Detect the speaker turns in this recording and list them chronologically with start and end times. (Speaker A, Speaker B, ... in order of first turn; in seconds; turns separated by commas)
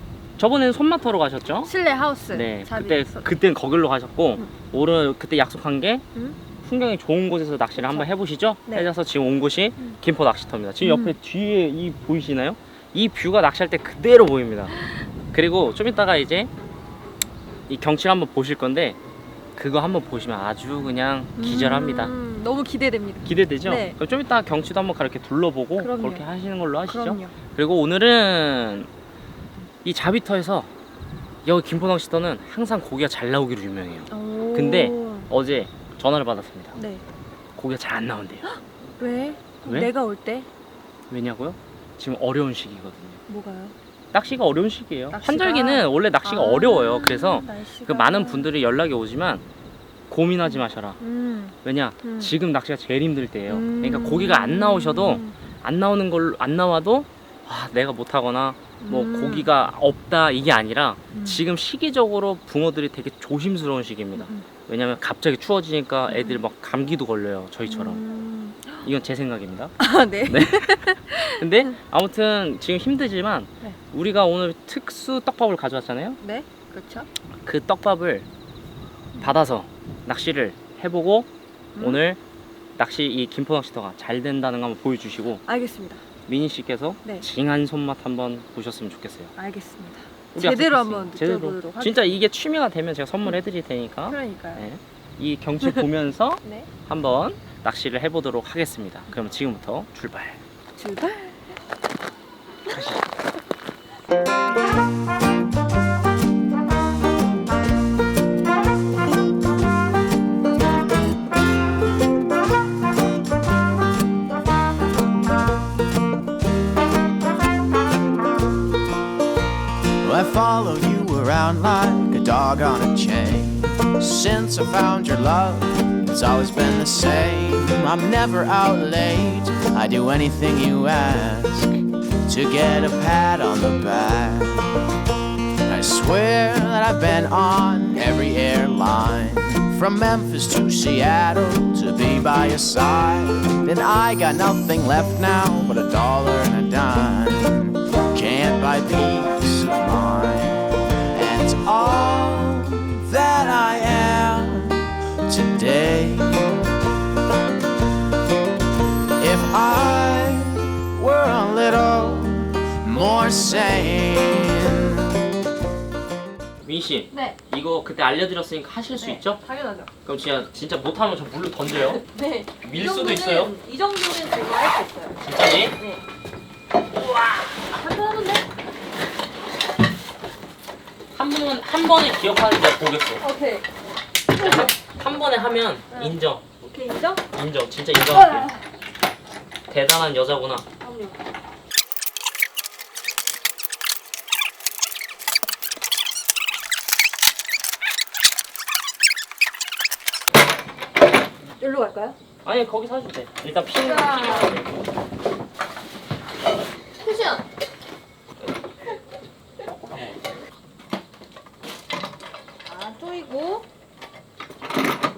Speaker A: 0.4-1.7, Speaker B: 1.6-3.3, Speaker A: 2.3-6.0, Speaker B: 6.2-6.4, Speaker A: 6.6-14.7, Speaker B: 7.8-8.1, Speaker B: 10.8-11.2, Speaker B: 14.8-15.0, Speaker A: 15.3-16.5, Speaker A: 17.7-19.0, Speaker A: 19.6-22.1, Speaker B: 21.4-24.0, Speaker A: 23.2-28.9, Speaker B: 25.8-26.2, Speaker B: 26.9-27.4, Speaker A: 29.8-30.7, Speaker A: 31.4-36.8, Speaker B: 34.1-35.3, Speaker B: 36.8-37.0, Speaker A: 37.5-38.5, Speaker B: 38.4-40.5, Speaker A: 39.6-39.9, Speaker A: 41.1-43.2, Speaker B: 43.3-43.8, Speaker A: 44.1-49.4, Speaker B: 45.1-48.5, Speaker A: 50.1-51.0, Speaker B: 50.5-52.3, Speaker A: 51.6-68.0, Speaker B: 53.5-55.4, Speaker B: 58.8-59.5, Speaker B: 61.1-61.4, Speaker B: 64.2-64.5, Speaker B: 66.1-66.4, Speaker B: 67.7-68.9, Speaker A: 68.8-76.2, Speaker B: 69.8-71.8, Speaker B: 76.2-77.1, Speaker A: 77.5-78.3, Speaker A: 79.2-82.2, Speaker B: 81.8-82.0, Speaker A: 82.8-85.4, Speaker B: 85.4-86.0, Speaker A: 86.3-89.3, Speaker B: 89.4-92.2, Speaker A: 90.3-100.4, Speaker B: 94.1-94.6, Speaker B: 96.4-96.7, Speaker B: 100.8-101.5, Speaker A: 102.7-103.0, Speaker C: 120.0-131.8, Speaker C: 132.3-134.8, Speaker C: 135.7-150.6, Speaker C: 151.1-156.6, Speaker C: 159.2-164.8, Speaker A: 166.6-169.4, Speaker B: 167.1-167.4, Speaker B: 168.9-169.9, Speaker A: 170.1-172.0, Speaker B: 171.7-175.2, Speaker A: 172.6-173.5, Speaker A: 175.2-175.8, Speaker B: 175.8-176.0, Speaker B: 177.6-178.4, Speaker A: 181.1-183.2, Speaker B: 183.2-183.7, Speaker A: 184.3-186.5, Speaker B: 184.4-184.7, Speaker B: 185.9-187.2, Speaker A: 187.3-188.5, Speaker B: 188.0-188.6, Speaker A: 189.7-190.7, Speaker B: 190.8-191.2, Speaker B: 201.6-202.2, Speaker A: 202.4-204.7, Speaker B: 203.8-204.6, Speaker B: 207.0-207.4, Speaker B: 212.7-213.7